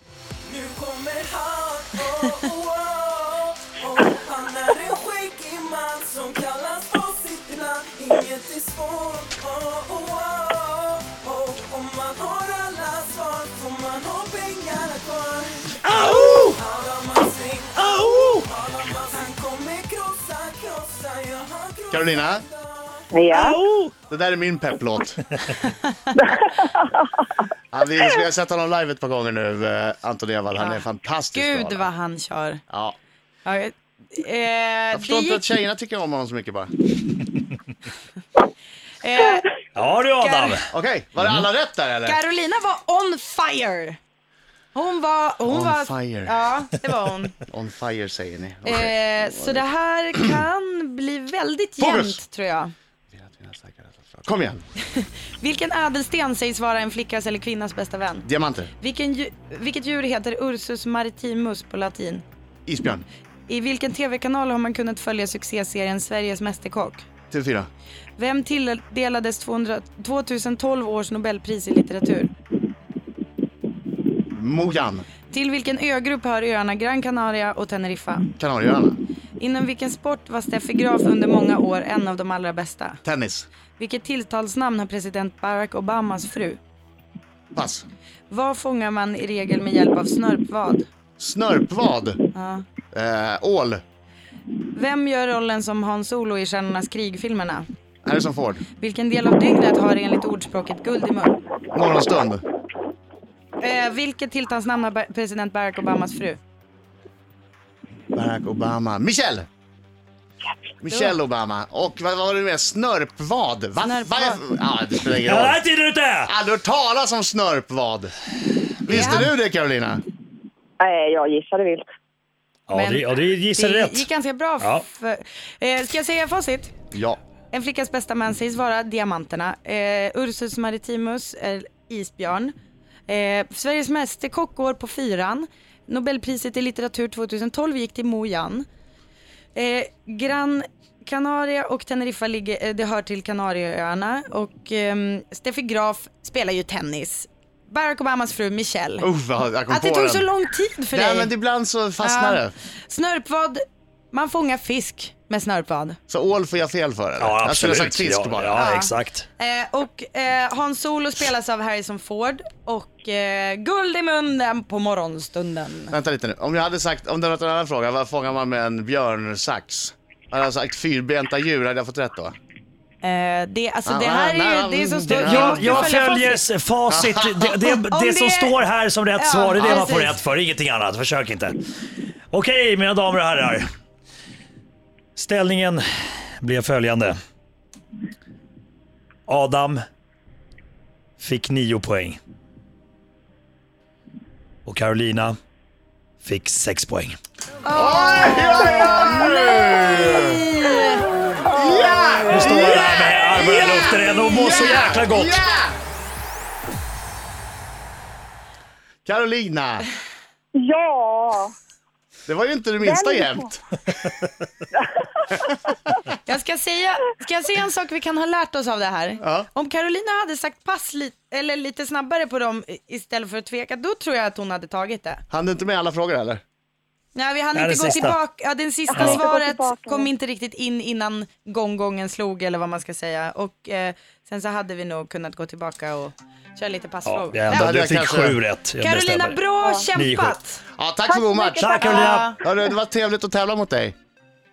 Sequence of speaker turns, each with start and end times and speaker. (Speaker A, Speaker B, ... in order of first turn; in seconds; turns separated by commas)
Speaker A: 0.5-23.4, Speaker B: 15.8-16.6, Speaker B: 17.8-18.4, Speaker C: 21.9-22.4, Speaker D: 23.1-23.6, Speaker B: 23.3-23.9, Speaker C: 24.1-25.2, Speaker D: 26.2-26.9, Speaker C: 27.7-31.9, Speaker E: 30.6-32.6, Speaker C: 32.7-33.0, Speaker E: 33.4-35.5, Speaker C: 34.9-36.7, Speaker E: 39.0-39.5, Speaker B: 39.8-40.6, Speaker E: 40.2-40.6, Speaker C: 40.7-42.2, Speaker E: 42.0-44.0, Speaker E: 44.7-47.4, Speaker C: 45.5-46.4, Speaker C: 47.5-50.4, Speaker E: 48.6-52.7, Speaker C: 51.8-52.2, Speaker C: 53.1-54.6, Speaker E: 54.9-58.3, Speaker C: 58.2-58.7, Speaker E: 58.8-62.2, Speaker C: 62.7-63.0, Speaker E: 63.5-67.0, Speaker C: 67.3-67.7, Speaker E: 68.2-72.3, Speaker C: 74.3-75.0, Speaker E: 75.3-78.3, Speaker C: 78.4-79.0, Speaker E: 79.4-83.0, Speaker C: 83.0-83.5, Speaker E: 83.8-86.6, Speaker C: 87.5-87.8, Speaker E: 88.3-90.9, Speaker C: 91.2-92.2, Speaker E: 92.3-92.7, Speaker C: 92.9-93.8, Speaker E: 94.7-97.7, Speaker C: 98.0-98.6, Speaker E: 98.8-101.3, Speaker C: 101.7-102.4, Speaker E: 103.6-106.4, Speaker C: 108.1-109.5, Speaker C: 110.8-115.6, Speaker E: 113.8-114.4, Speaker B: 115.2-116.3, Speaker C: 116.2-118.1, Speaker C: 118.8-120.0, Speaker E: 118.9-119.3, Speaker D: 120.8-121.8, Speaker B: 122.7-124.1, Speaker E: 122.7-126.7, Speaker C: 126.9-127.2, Speaker E: 127.5-132.5, Speaker E: 133.1-138.7, Speaker E: 139.5-149.1, Speaker C: 149.0-150.3, Speaker E: 149.7-151.3, Speaker C: 150.9-152.5, Speaker E: 152.0-156.0, Speaker C: 156.1-158.6, Speaker B: 157.2-159.2, Speaker E: 158.6-165.9, Speaker C: 165.9-172.3, Speaker E: 173.0-176.4, Speaker C: 173.8-175.9, Speaker B: 175.1-181.5, Speaker C: 176.9-177.7, Speaker E: 177.9-178.6, Speaker E: 179.1-180.2, Speaker C: 179.6-179.9, Speaker B: 182.3-183.6, Speaker B: 185.1-185.8, Speaker B: 186.4-187.2, Speaker B: 189.3-189.8, Speaker B: 191.2-192.2, Speaker B: 194.6-195.3, Speaker B: 196.2-197.2, Speaker E: 197.6-201.1, Speaker C: 197.7-200.4, Speaker D: 201.5-202.2, Speaker C: 201.5-205.8, Speaker B: 202.3-205.4, Speaker C: 209.0-209.9, Speaker D: 210.6-211.5, Speaker C: 212.3-213.6, Speaker D: 212.8-213.3, Speaker E: 216.2-225.2, Speaker C: 219.2-219.5, Speaker C: 225.3-226.4, Speaker E: 227.1-237.6, Speaker B: 227.5-228.2, Speaker D: 228.9-230.1, Speaker B: 228.9-229.2, Speaker B: 237.0-239.4, Speaker C: 237.5-238.4, Speaker E: 238.8-240.6, Speaker B: 239.9-240.4, Speaker C: 240.8-243.9, Speaker D: 241.1-242.1, Speaker B: 241.5-242.3, Speaker E: 241.7-242.3